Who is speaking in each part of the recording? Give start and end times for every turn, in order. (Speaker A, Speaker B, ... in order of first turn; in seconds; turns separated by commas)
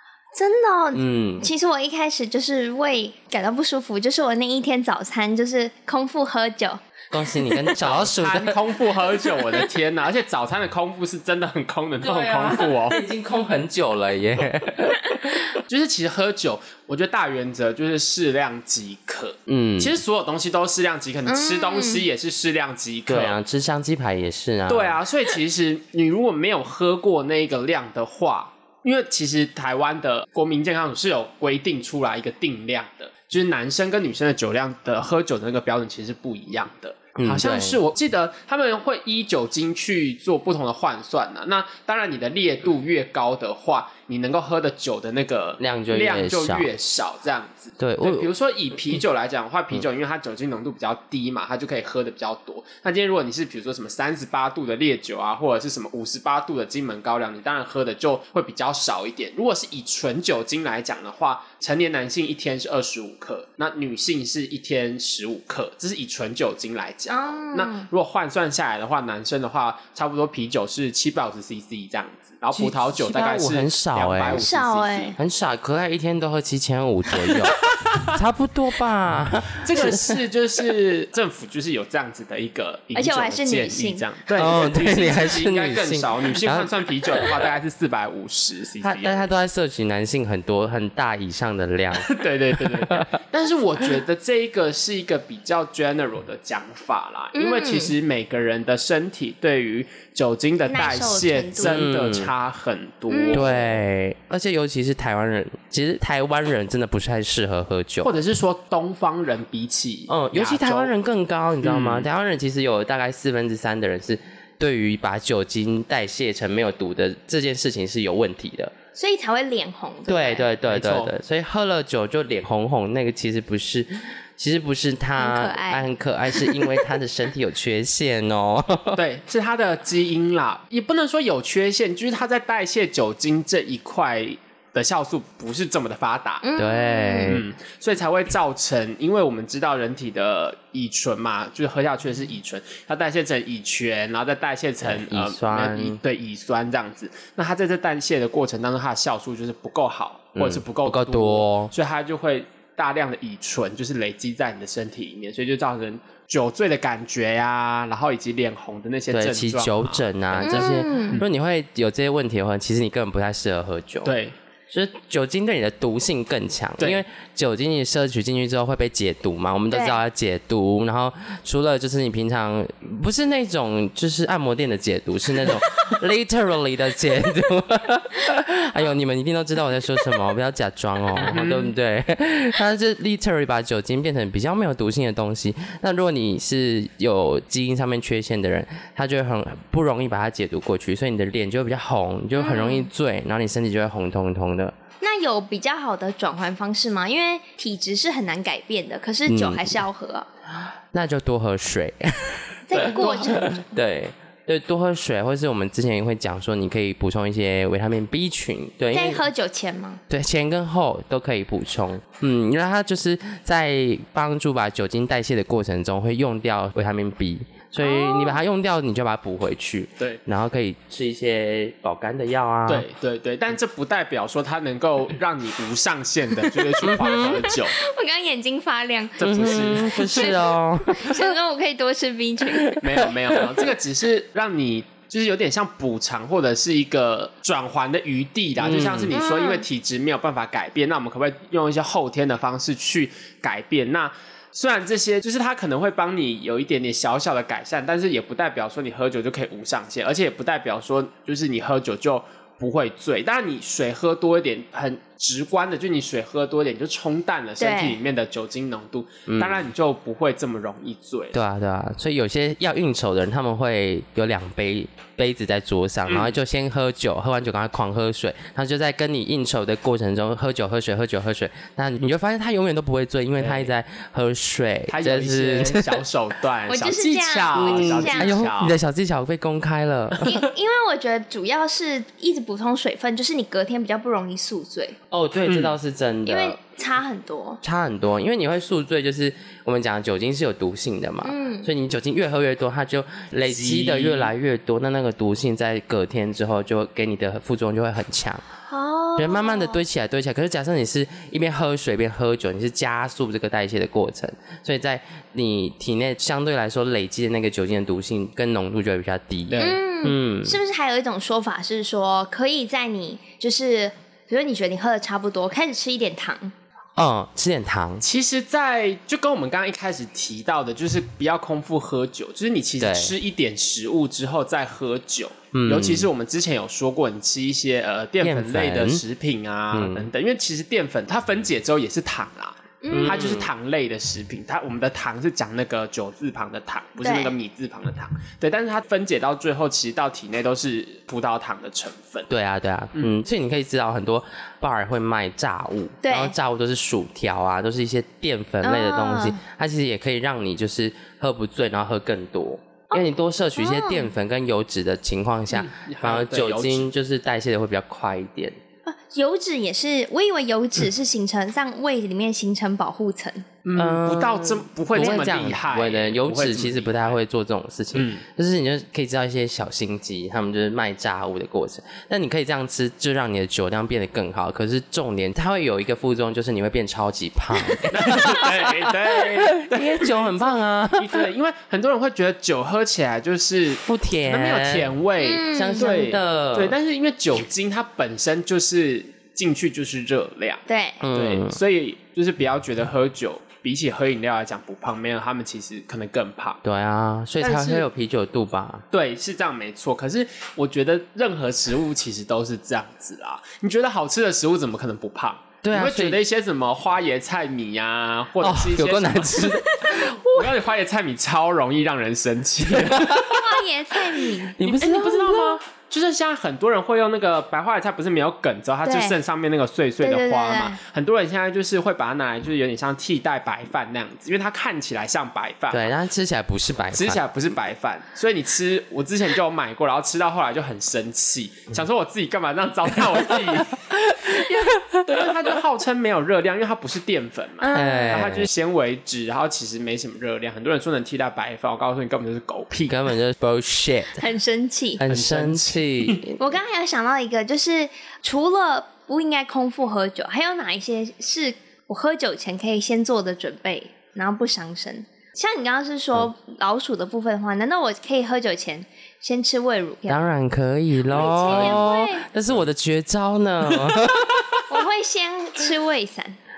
Speaker A: 0.3-6.8, Speaker B: 0.9-1.5, Speaker B: 7.1-8.6, Speaker C: 7.8-13.0, Speaker B: 12.0-15.4, Speaker C: 15.7-23.4, Speaker B: 19.5-20.0, Speaker A: 21.2-22.0, Speaker B: 23.1-25.0, Speaker C: 24.7-75.2, Speaker B: 37.1-37.8, Speaker B: 45.6-46.7, Speaker B: 47.8-48.3, Speaker A: 67.1-67.8, Speaker B: 72.5-74.5, Speaker A: 74.3-75.2, Speaker B: 75.2-80.2, Speaker C: 77.3-78.2, Speaker C: 79.6-89.3, Speaker A: 82.9-84.0, Speaker B: 84.3-87.5, Speaker B: 88.8-93.1, Speaker C: 91.9-103.8, Speaker A: 97.3-97.9, Speaker A: 100.6-101.8, Speaker B: 101.6-102.3, Speaker A: 103.1-103.6, Speaker B: 103.3-108.2, Speaker C: 108.0-110.9, Speaker B: 110.1-118.7, Speaker C: 111.6-112.1, Speaker A: 118.9-120.5, Speaker B: 120.1-129.0, Speaker C: 120.7-121.1, Speaker A: 125.2-125.9, Speaker A: 126.4-126.8, Speaker C: 128.9-136.4, Speaker A: 136.4-137.4, Speaker B: 136.6-137.4, Speaker C: 137.3-161.3, Speaker B: 144.8-146.0, Speaker B: 150.3-151.7, Speaker B: 159.1-164.2, Speaker A: 160.4-161.2, Speaker C: 164.0-164.3, Speaker B: 164.7-194.7, Speaker A: 169.7-170.0, Speaker C: 181.2-181.7, Speaker A: 192.4-192.9, Speaker A: 195.0-200.3, Speaker B: 199.3-199.8, Speaker B: 200.5-209.3, Speaker A: 202.7-203.7, Speaker A: 208.9-210.0, Speaker B: 210.1-222.9, Speaker A: 217.8-218.4, Speaker C: 222.7-227.8, Speaker B: 226.8-227.5, Speaker A: 227.5-233.0, Speaker C: 229.2-230.4, Speaker B: 229.2-231.3, Speaker B: 232.6-233.5, Speaker C: 232.8-261.4, Speaker B: 238.6-239.2, Speaker A: 239.1-239.6, Speaker A: 257.6-258.0, Speaker B: 259.3-259.7, Speaker B: 261.3-276.0, Speaker C: 266.1-266.4, Speaker C: 273.4-273.7, Speaker C: 274.9-278.8, Speaker A: 276.7-278.4, Speaker B: 277.5-280.4, Speaker A: 280.2-285.0, Speaker B: 285.1-286.6, Speaker C: 285.4-285.8, Speaker A: 286.2-287.6, Speaker B: 287.6-298.4, Speaker A: 291.2-291.7, Speaker C: 293.4-294.3, Speaker A: 298.7-299.8, Speaker B: 299.2-310.6, Speaker C: 309.5-309.8, Speaker A: 309.6-316.5, Speaker B: 316.9-318.0, Speaker C: 318.0-342.3, Speaker B: 322.8-323.1, Speaker B: 325.5-326.1, Speaker B: 328.2-329.0, Speaker B: 329.7-330.1, Speaker A: 332.8-333.2, Speaker B: 332.9-333.5, Speaker A: 337.0-337.3, Speaker B: 342.3-358.6, Speaker A: 346.0-346.3, Speaker A: 348.6-349.4, Speaker A: 352.9-354.1, Speaker C: 355.5-356.9, Speaker A: 358.9-363.4, Speaker C: 363.6-367.2, Speaker B: 363.7-381.3, Speaker C: 367.9-368.2, Speaker C: 377.9-396.6, Speaker B: 383.9-384.9, Speaker A: 385.2-386.0, Speaker B: 385.5-386.8, Speaker A: 390.7-391.0, Speaker B: 391.0-391.6, Speaker B: 396.6-398.8, Speaker C: 397.4-397.9, Speaker C: 398.9-413.4, Speaker B: 405.6-406.2, Speaker B: 408.4-410.5, Speaker B: 412.7-413.4, Speaker A: 413.3-414.6, Speaker B: 414.2-415.6, Speaker C: 414.6-425.9, Speaker A: 418.8-419.1, Speaker A: 420.0-420.8, Speaker B: 425.7-427.2, Speaker C: 426.9-443.1, Speaker B: 434.0-435.1, Speaker A: 437.6-438.2, Speaker B: 437.7-438.5, Speaker B: 442.9-444.2, Speaker A: 444.2-445.0, Speaker B: 445.0-446.4, Speaker C: 445.1-446.3, Speaker A: 446.4-460.3, Speaker B: 460.1-464.4, Speaker C: 461.1-461.9, Speaker A: 461.1-462.2, Speaker A: 464.7-466.4